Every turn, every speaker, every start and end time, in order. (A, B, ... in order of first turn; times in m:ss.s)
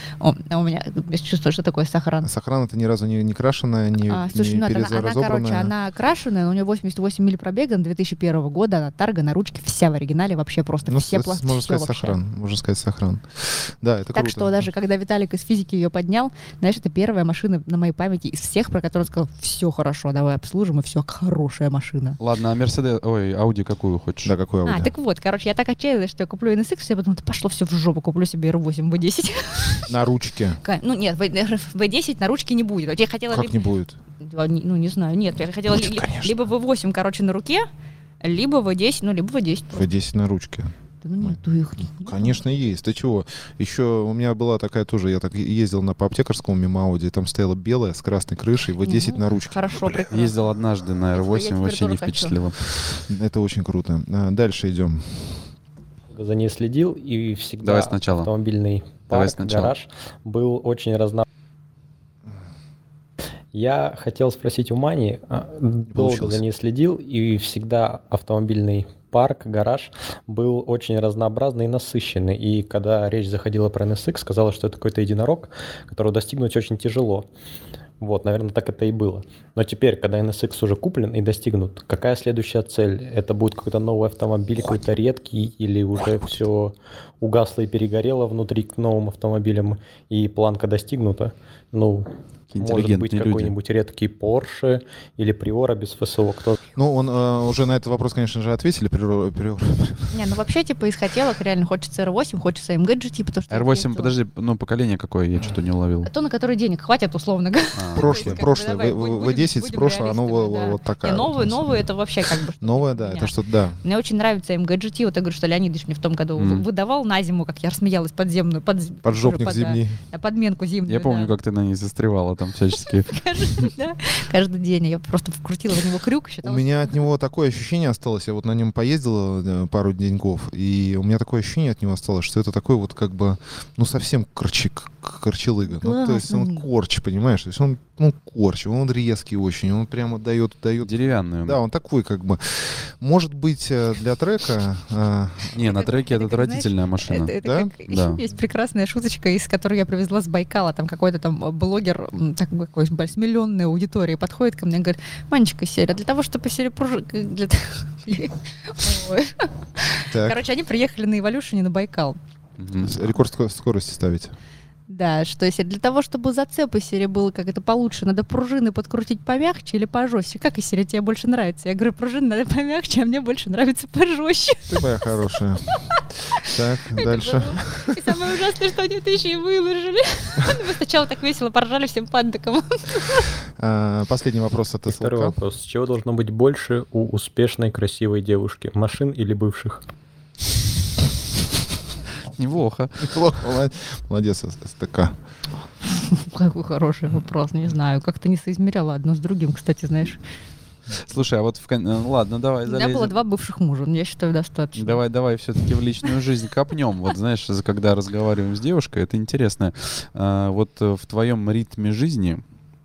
0:00.2-0:02.3 A
0:02.2-0:05.7 B
0:04.1-0:12.2 A
0:10.9-0:14.7 B
0:14.1-0:22.2 A
0:22.2-0:24.3 C
0:24.2-0:24.9 B
0:24.6-0:29.9 A
0:29.9-0:30.6 B
0:30.6-0:33.7 A
0:33.3-0:34.0 B
0:34.2-0:37.7 A
0:35.7-0:36.4 B
0:38.2-0:39.9 A
0:39.7-0:41.4 B
0:41.0-0:42.4 A
0:42.0-0:50.1 B
0:48.8-0:50.4 A
0:50.1-0:52.6 C
0:51.1-0:52.4 A
0:53.1-0:55.4 B
0:56.1-1:01.3 D
0:57.6-0:58.3 C
0:59.1-0:59.7 C
1:03.5-1:17.3 D
1:05.9-1:06.4 B
1:18.0-1:32.1 D
1:32.5-1:33.5 C
1:32.6-1:36.6 D
1:36.8-1:40.1 B
1:40.1-1:44.1 A
1:43.5-1:46.1 C
1:46.1-2:01.3 A
1:47.8-1:48.4 C
1:48.0-1:51.8 B
1:52.6-1:53.8 B
1:56.4-1:56.6 C
1:59.0-2:00.0 B
2:00.9-2:03.7 C
2:02.8-2:06.9 A
2:06.4-2:20.9 B
2:15.7-2:16.7 A
2:20.8-2:21.6 C
2:21.4-2:25.6 B
2:25.6-2:27.3 C
2:25.6-2:42.2 A
2:27.4-2:27.7 B
2:27.9-2:28.2 C
2:40.1-2:40.4 B
2:42.6-2:43.0 C
2:42.8-2:44.3 B
2:44.9-2:54.9 A
2:54.7-2:55.8 B
2:56.4-2:58.1 B
2:56.4-3:03.3 A
3:03.6-3:05.4 B
3:04.9-3:09.8 D
3:12.4-3:13.1 C
3:13.0-3:15.2 B
3:16.0-3:20.2 A
3:21.0-3:23.2 C
3:22.6-3:25.0 A
3:24.8-3:32.4 C